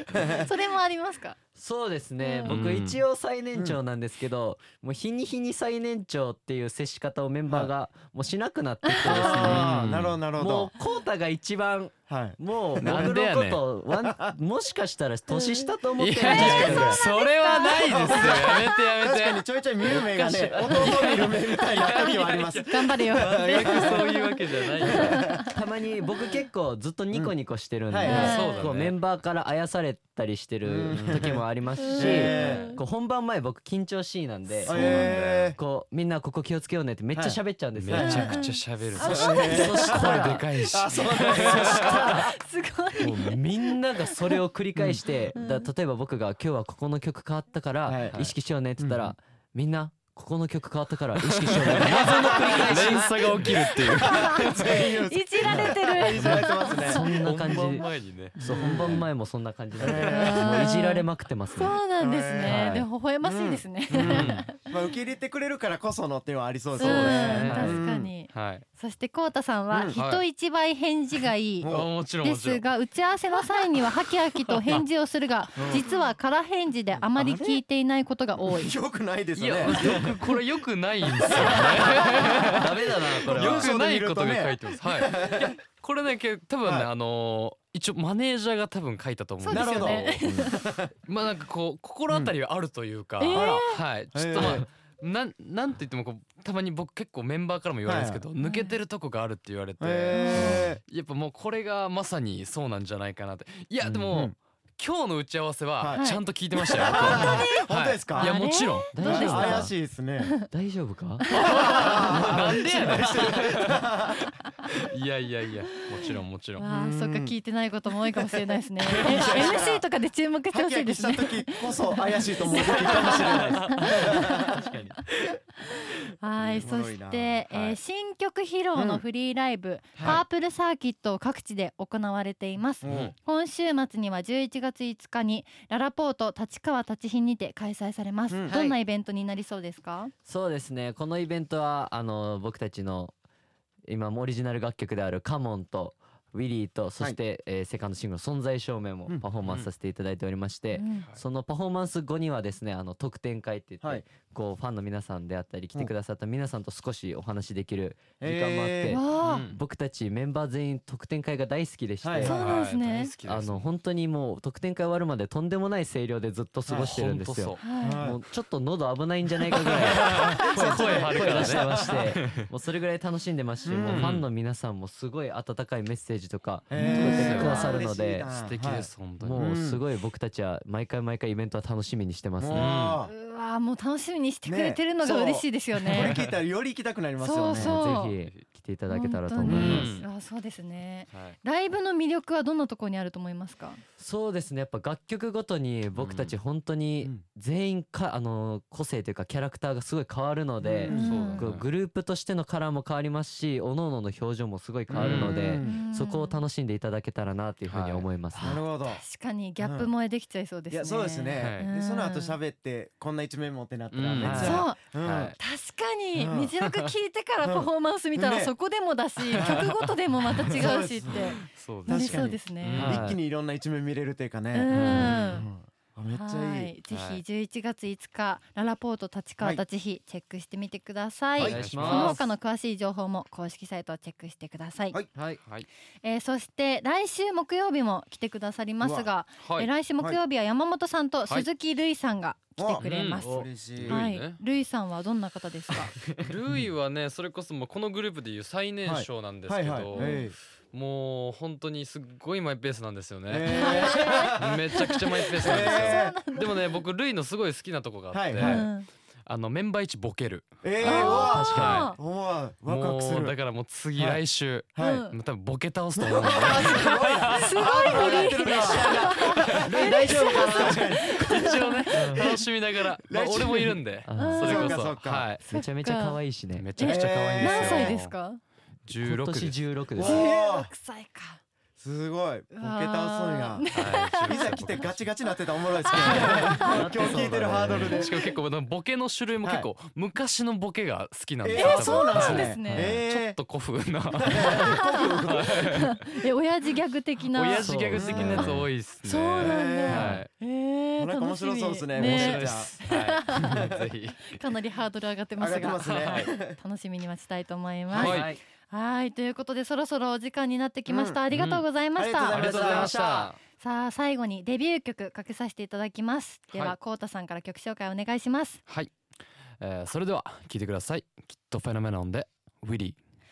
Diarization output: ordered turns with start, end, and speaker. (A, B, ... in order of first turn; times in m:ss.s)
0:00.1-0:00.5 A
0:00.2-0:01.4 B
0:01.6-0:09.7 C
0:02.2-0:02.5 B
0:02.5-0:03.0 D
0:08.9-0:09.6 B
0:09.0-0:10.7 A
0:09.4-0:10.2 D
0:10.4-0:17.0 C
0:12.1-0:13.3 A
0:12.8-0:13.6 D
0:14.0-0:14.4 A
0:15.3-0:15.7 B
0:16.0-0:25.2 D
0:16.2-0:18.9 B
0:17.7-0:24.2 A
0:20.3-0:21.3 C
0:22.6-0:25.5 B
0:24.9-0:25.5 A
0:25.5-0:38.3 C
0:27.9-0:28.4 A
0:28.0-0:28.7 B
0:28.0-0:29.0 D
0:30.6-0:31.4 A
0:30.9-0:31.3 D
0:31.8-0:32.8 B
0:32.0-0:32.8 A
0:32.3-0:32.7 D
0:34.7-0:35.5 D
0:34.7-0:35.6 A
0:34.7-0:35.1 B
0:37.1-0:37.4 A
0:37.8-0:42.2 D
0:37.9-0:38.2 A
0:38.0-0:40.2 B
0:39.0-0:42.1 A
0:39.1-0:40.5 C
0:41.4-0:42.3 C
0:42.0-0:44.4 B
0:43.0-0:53.5 C
0:44.8-0:45.2 A
0:45.4-0:45.7 B
0:47.9-0:48.2 A
0:48.1-0:48.3 D
0:48.8-0:49.2 A
0:51.2-0:54.8 D
0:51.7-0:57.8 A
0:53.8-0:57.2 B
0:56.2-0:56.4 D
0:56.2-1:01.8 C
0:57.0-0:59.0 D
0:58.4-0:59.1 A
0:59.8-1:00.8 A
0:59.8-1:00.1 D
1:00.1-1:04.6 B
1:02.0-1:08.1 A
1:02.4-1:02.9 D
1:04.0-1:04.5 D
1:06.8-1:08.6 D
1:06.8-1:11.7 B
1:07.2-1:07.8 C
1:09.7-1:10.0 A
1:09.9-1:10.2 D
1:11.6-1:11.9 A
1:11.7-1:12.7 D
1:12.2-1:18.8 B
1:13.6-1:14.8 D
1:15.6-1:15.8 A
1:17.2-1:17.6 C
1:18.4-1:20.1 A
1:19.4-1:30.5 D
1:19.6-1:20.2 C
1:21.2-1:22.0 A
1:21.2-1:23.8 C
1:22.8-1:25.5 A
1:29.4-1:30.6 B
1:29.5-1:30.9 A
1:31.1-1:49.0 D
1:32.1-1:32.3 A
1:33.2-1:33.8 B
1:33.3-1:34.7 A
1:37.8-1:38.2 A
1:38.4-1:38.8 B
1:39.8-1:40.8 A
1:40.1-1:40.7 B
1:43.8-1:44.4 A
1:45.8-1:48.4 A
1:45.9-1:47.6 B
1:48.2-1:49.7 B
1:48.9-1:49.7 C
1:49.0-1:50.3 A
1:50.5-1:51.2 C
1:51.2-1:53.0 B
1:51.3-1:54.3 A
1:51.5-1:53.8 D
1:52.0-1:53.6 C
1:54.8-1:56.7 D
1:56.6-2:04.7 B
1:56.7-1:57.3 A
1:58.8-1:59.9 A
2:00.5-2:04.5 A
2:02.7-2:03.8 D
2:04.5-2:04.9 C
2:04.6-2:05.0 D
2:05.7-2:20.1 B
2:06.5-2:07.8 A
2:08.8-2:09.0 A
2:10.0-2:10.2 A
2:12.8-2:13.1 A
2:12.9-2:13.1 D
2:18.3-2:18.6 A
2:18.5-2:18.8 C
2:20.3-2:23.1 C
2:23.9-2:42.4 C
2:29.4-2:29.7 D
2:30.7-2:31.1 B
2:38.2-2:39.0 A
2:38.9-2:39.5 B
2:39.2-2:39.6 D
2:42.0-2:42.4 A
2:42.2-2:43.1 B
2:42.2-2:43.7 D
2:43.2-2:58.3 C
2:46.7-2:46.9 A
2:46.8-2:47.7 D
2:47.6-2:48.1 B
2:47.8-2:48.2 A
2:49.5-2:52.5 D
2:50.4-2:52.1 A
2:50.6-2:51.1 B
2:53.7-2:54.1 A
2:53.8-2:54.3 D
2:56.7-2:59.8 A
2:56.8-2:57.8 B
2:56.8-2:57.8 D
2:58.3-2:59.5 D
2:59.2-3:02.8 C
3:02.4-3:03.1 A
3:02.5-3:03.0 D
3:03.0-3:06.2 B
3:04.4-3:07.7 A
3:06.0-3:06.2 D
3:07.2-3:08.2 B
3:07.6-3:10.0 C
3:08.0-3:08.4 D
3:08.9-3:13.8 B
3:09.4-3:10.1 D
3:09.5-3:09.9 A
3:11.1-3:11.4 D
3:14.0-3:28.6 C
3:16.0-3:16.4 D
3:20.6-3:21.1 A
3:20.9-3:21.5 B
3:20.9-3:21.7 D
3:24.9-3:25.8 A
3:25.0-3:25.5 D
3:25.6-3:26.4 B
3:27.7-3:28.1 D
3:28.4-3:32.4 B
3:28.4-3:29.0 A
3:29.6-3:29.9 A
3:30.7-3:35.4 A
3:31.3-3:31.7 D
3:33.9-3:35.4 D
3:34.2-3:34.7 C
3:34.4-3:34.8 B
3:35.4-3:42.9 B
3:36.2-3:36.5 A
3:37.4-3:38.5 A
3:39.2-3:39.9 D
3:39.4-3:39.7 A
3:40.5-3:46.7 A
3:41.4-3:43.1 D
3:42.8-3:43.2 C
3:44.5-3:45.5 B
3:44.7-3:45.5 D
3:46.1-3:55.0 B
3:46.9-3:47.2 D
3:51.4-3:52.2 C
3:51.4-3:52.3 D
3:55.2-3:55.4 C
3:56.0-4:06.0 B
3:58.8-3:59.1 A
3:59.4-3:59.7 D
4:02.6-4:04.0 A
4:02.8-4:03.2 D
4:03.2-4:03.5 C
4:03.8-4:04.4 D
4:06.2-4:18.7 D
4:08.8-4:10.4 A
4:09.9-4:10.2 B
4:13.3-4:14.6 A
4:13.5-4:16.8 B
4:15.4-4:16.2 A
4:18.1-4:18.7 A
4:18.4-4:18.9 B
4:19.3-4:20.6 D
4:20.6-4:23.4 A
4:20.8-4:22.0 B
4:20.9-4:21.9 C
4:21.5-4:22.0 D
4:22.6-4:29.3 D
4:24.0-4:24.2 A
4:24.7-4:25.1 A
4:24.8-4:25.1 B
4:25.9-4:33.8 A
4:26.4-4:31.9 B
4:29.6-4:30.8 C
4:31.1-4:35.4 D
4:31.9-4:32.3 C
4:34.0-4:34.7 C
4:34.2-4:34.8 B
4:34.4-4:35.3 A
4:35.4-4:36.7 C
4:35.5-4:36.2 B
4:36.6-4:38.1 D
4:36.8-4:38.4 B
4:36.8-4:38.0 A
4:38.9-4:39.6 D
4:39.0-4:40.3 C
4:40.0-4:40.7 A
4:40.0-4:41.4 B
4:41.8-4:48.3 A
4:42.5-4:44.9 B
4:43.7-4:45.0 D
4:45.8-4:46.8 B
4:46.0-4:46.5 D
4:46.1-4:48.0 C
4:47.8-4:56.2 D
4:49.4-4:49.7 A
4:51.4-4:53.4 A
4:51.5-4:52.9 B
4:54.2-4:55.6 A
4:54.2-4:57.7 B
4:57.3-5:00.3 D
4:57.6-4:58.7 C
4:58.0-4:58.6 A
4:58.4-5:03.7 B
4:59.4-5:00.2 A
5:01.0-5:02.8 A
5:02.0-5:04.4 D
5:03.4-5:03.8 A
5:04.3-5:12.5 B
5:05.4-5:06.6 A
5:05.7-5:06.3 D
5:08.0-5:08.4 D
5:08.0-5:08.4 C
5:10.9-5:11.2 A
5:11.3-5:11.7 D
5:12.0-5:13.0 A
5:12.3-5:13.4 D
5:12.4-5:13.4 C
5:13.6-5:18.6 B
5:18.7-5:18.9 D
5:19.6-5:23.0 D